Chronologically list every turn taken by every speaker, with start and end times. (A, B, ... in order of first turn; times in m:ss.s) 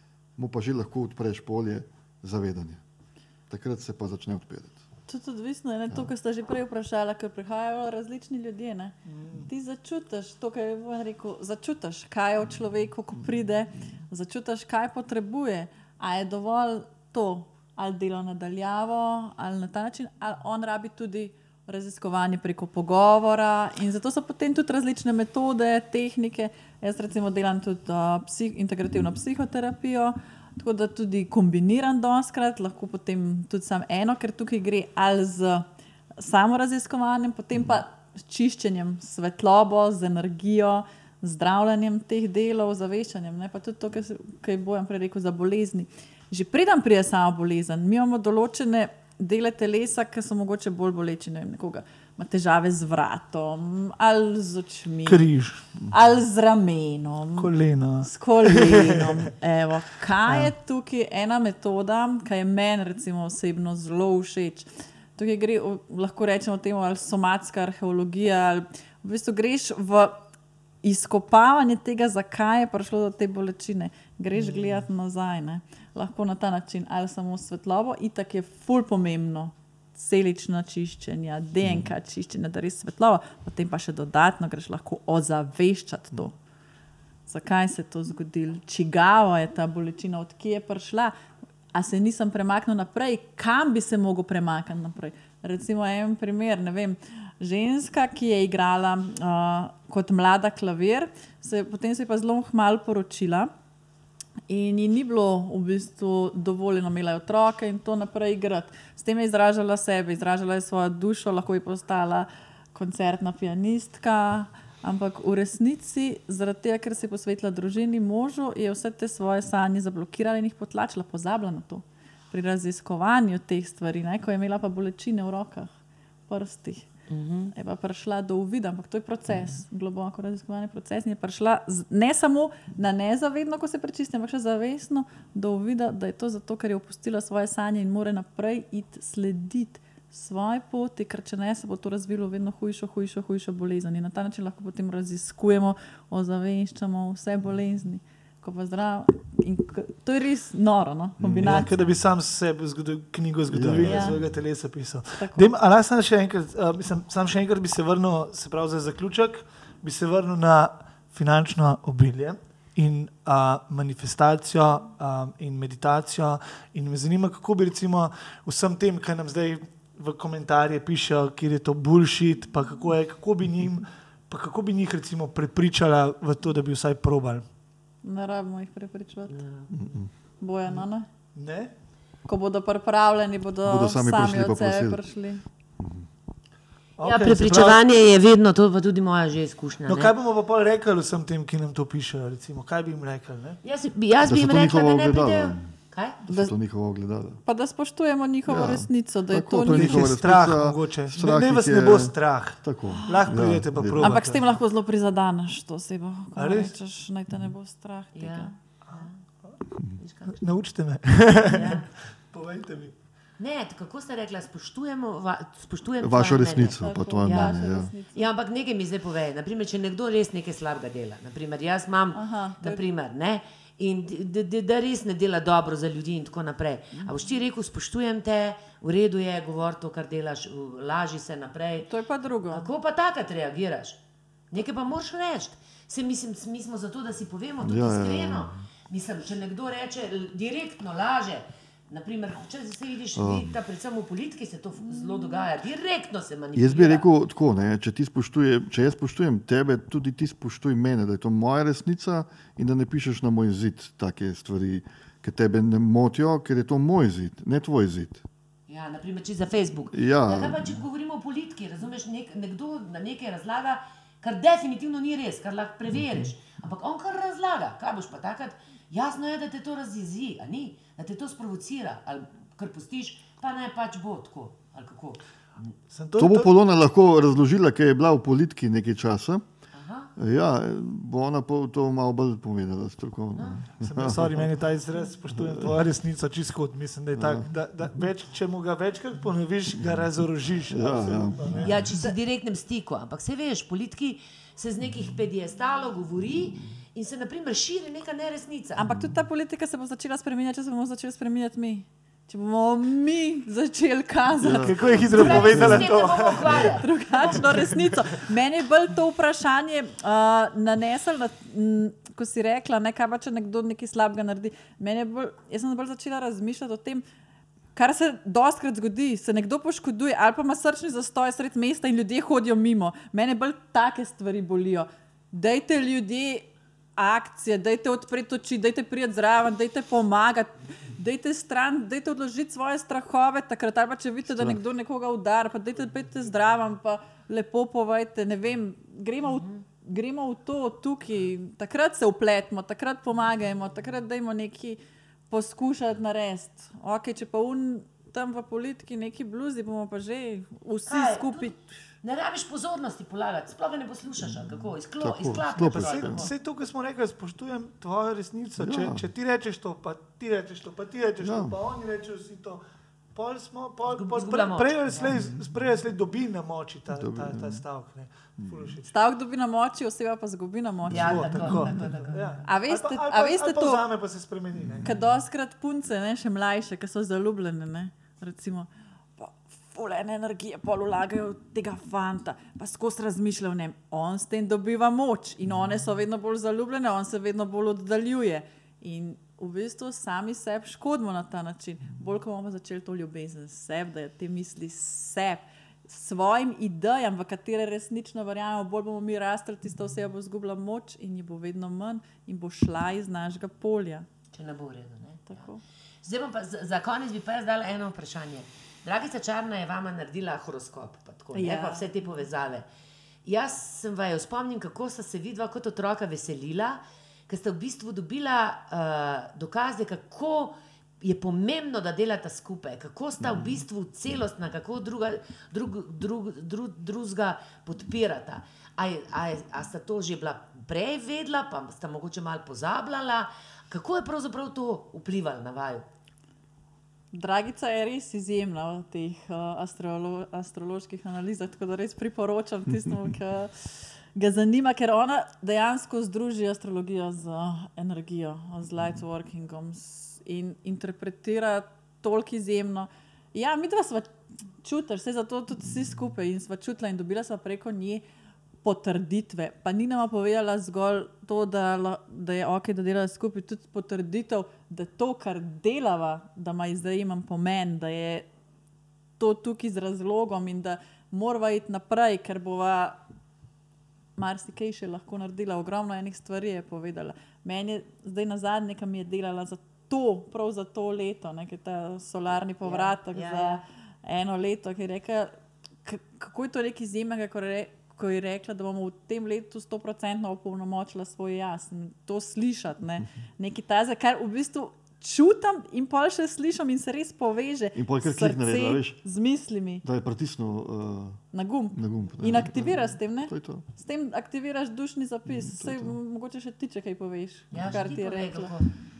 0:00.4-0:02.8 A
0:03.5-0:04.8 A
0:05.1-0:35.6 B
0:09.0-0:09.5 C
0:36.2-0:55.3 B
0:55.1-0:55.6 C
0:55.8-1:10.2 B
0:57.4-0:59.3 C
1:00.3-1:00.5 C
1:10.8-1:26.3 B
1:21.6-1:21.9 A
1:27.3-1:31.1 B
1:31.7-1:43.5 B
1:44.5-2:05.7 B
2:06.3-2:06.9 B
2:07.1-2:07.5 D
2:07.5-2:31.7 B
2:31.2-2:31.9 A
2:31.3-2:57.4 C
2:33.5-2:34.4 A
2:33.8-2:34.2 B
2:35.2-2:35.5 B
2:58.0-2:59.4 B
2:59.3-2:59.8 D
2:59.7-3:00.1 A
3:00.4-3:01.1 B
3:01.3-3:01.7 C
3:02.3-3:05.4 B
3:03.6-3:05.0 A
3:05.8-3:06.1 A
3:07.0-3:07.9 C
3:07.0-3:10.1 D
3:09.9-3:13.6 C
3:13.6-3:16.2 D
3:14.2-3:15.7 A
3:16.2-3:17.4 A
3:16.3-3:16.5 B
3:17.4-3:20.1 B
3:18.5-3:24.2 A
3:19.6-3:24.4 C
3:22.9-3:23.2 B
3:24.0-3:28.5 B
3:26.4-3:26.8 C
3:28.1-3:29.2 D
3:28.9-3:29.6 C
3:30.0-3:30.4 D
3:30.3-3:32.9 C
3:31.5-3:31.9 D
3:33.4-3:51.9 D
3:36.0-3:37.9 A
3:36.8-3:38.2 B
3:42.1-3:42.8 B
3:47.0-3:47.2 B
3:51.9-3:52.7 B
3:52.5-3:54.0 D
3:54.5-4:07.0 D
3:57.6-3:58.7 A
4:03.2-4:03.5 A
4:06.5-4:18.2 A
4:18.7-4:35.7 D
4:19.9-4:20.8 A
4:35.9-4:36.5 C
4:36.2-4:39.4 A
4:39.7-4:40.1 D
4:40.2-4:44.5 A
4:43.4-4:43.6 D
4:43.8-4:51.8 C
4:45.3-4:45.8 A
4:47.2-4:47.5 A
4:50.7-4:51.8 A
4:51.6-4:58.8 D
4:58.8-5:04.7 B
5:04.4-5:06.8 A
5:04.5-5:06.7 C
5:05.1-5:06.9 D
5:06.6-5:17.0 B
5:07.2-5:07.9 C
5:17.7-5:51.7 B
5:34.2-5:34.6 A
5:39.2-5:39.6 D
5:50.9-5:56.3 D
5:55.0-5:56.2 A
5:55.6-6:02.6 C
5:58.6-5:59.1 A
6:01.2-6:01.6 A
6:03.1-6:08.9 C
6:03.9-6:05.2 D
6:06.9-6:07.6 A
6:08.4-6:08.7 A
6:08.9-6:11.3 B
6:10.9-6:12.5 D
6:10.9-6:14.9 C
6:11.1-6:11.7 A
6:12.4-6:13.8 B
6:14.5-6:14.9 A
6:14.8-6:44.0 B
6:44.3-6:45.5 D
6:45.3-6:45.6 B
6:46.0-6:52.6 D
6:51.3-6:51.9 B
6:53.2-7:15.8 D
7:17.1-7:38.0 B
7:38.6-7:48.3 B
7:49.2-7:53.0 B
7:54.2-8:05.3 B
8:02.6-8:03.6 D
8:05.8-8:19.8 B
8:17.7-8:19.0 A
8:19.8-8:23.6 A
8:21.3-8:28.5 B
8:25.3-8:26.0 A
8:27.5-8:28.7 D